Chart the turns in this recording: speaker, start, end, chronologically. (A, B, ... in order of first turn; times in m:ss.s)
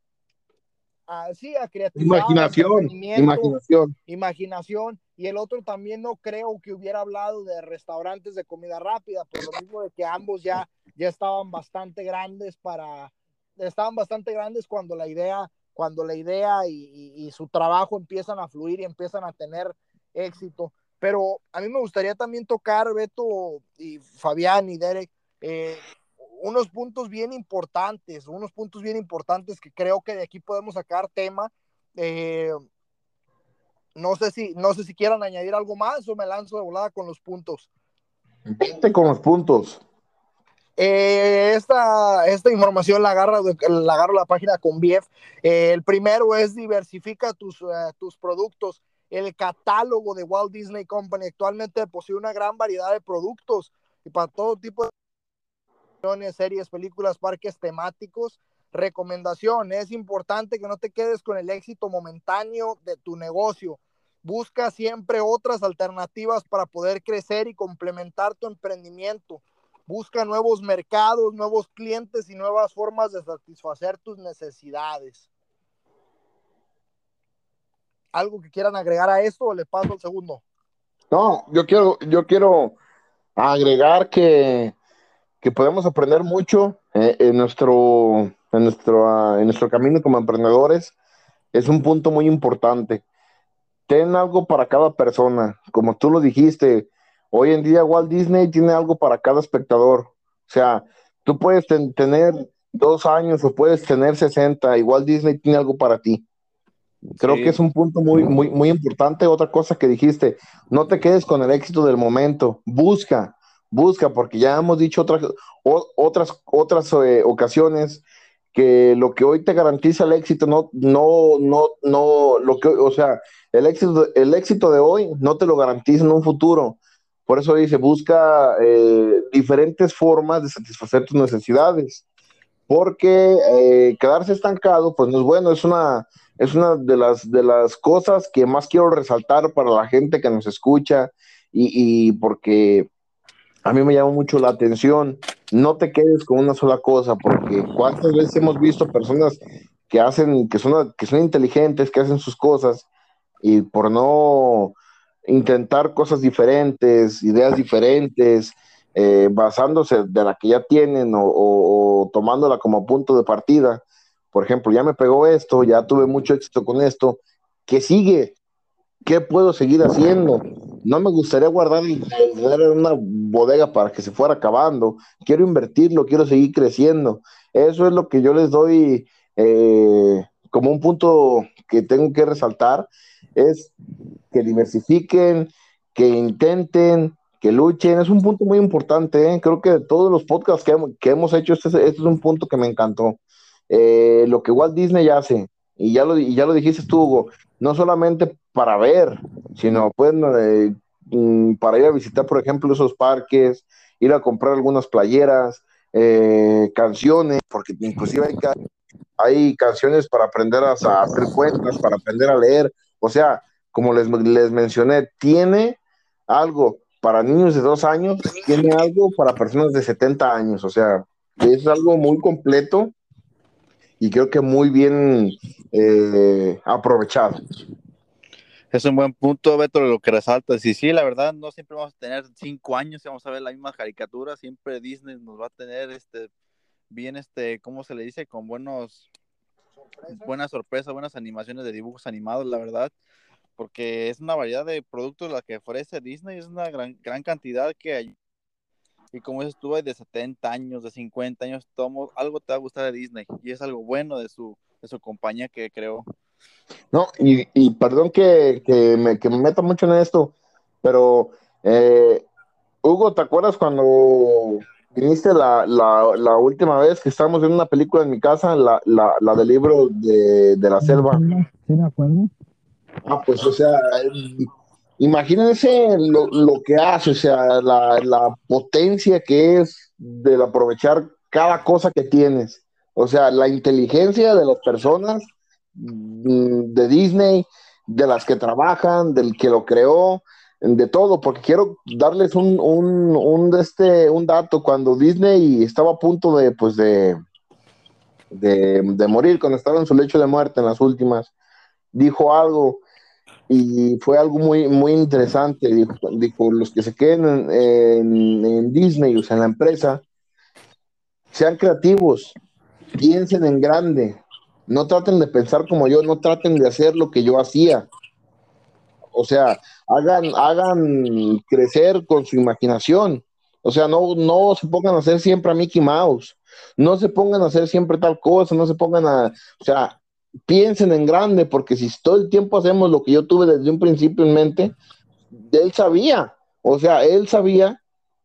0:01.1-0:32.6 A
0:02.0-0:03.9 B
0:33.9-0:37.7 A
0:38.4-0:39.8 B
0:40.8-0:54.9 A
0:56.0-1:15.3 A
1:18.1-1:20.4 A
1:21.1-1:22.8 B
1:23.4-1:24.7 B
1:25.4-1:30.9 B
1:31.5-1:33.0 B
1:33.9-1:46.2 B
1:47.1-1:47.6 C
1:47.2-1:58.0 B
1:58.5-2:12.0 B
2:12.7-2:22.9 B
2:23.6-2:32.8 B
2:33.4-2:48.3 B
2:49.0-3:03.7 B
3:04.3-3:28.5 B
3:29.2-3:42.9 B
3:44.0-3:47.4 B
3:48.7-3:56.3 C
3:56.9-3:59.1 C
3:59.8-4:00.3 A
4:00.1-4:02.9 C
4:03.6-4:08.1 C
4:09.1-4:16.0 C
4:16.9-4:22.2 B
4:22.8-4:31.2 B
4:30.8-4:32.3 A
4:33.0-4:57.2 B
4:58.3-5:01.3 B
5:01.9-5:02.8 B
5:03.5-5:10.0 B
5:11.3-5:12.3 B
5:12.9-5:17.9 B
5:19.1-5:34.7 B
5:35.3-5:37.8 B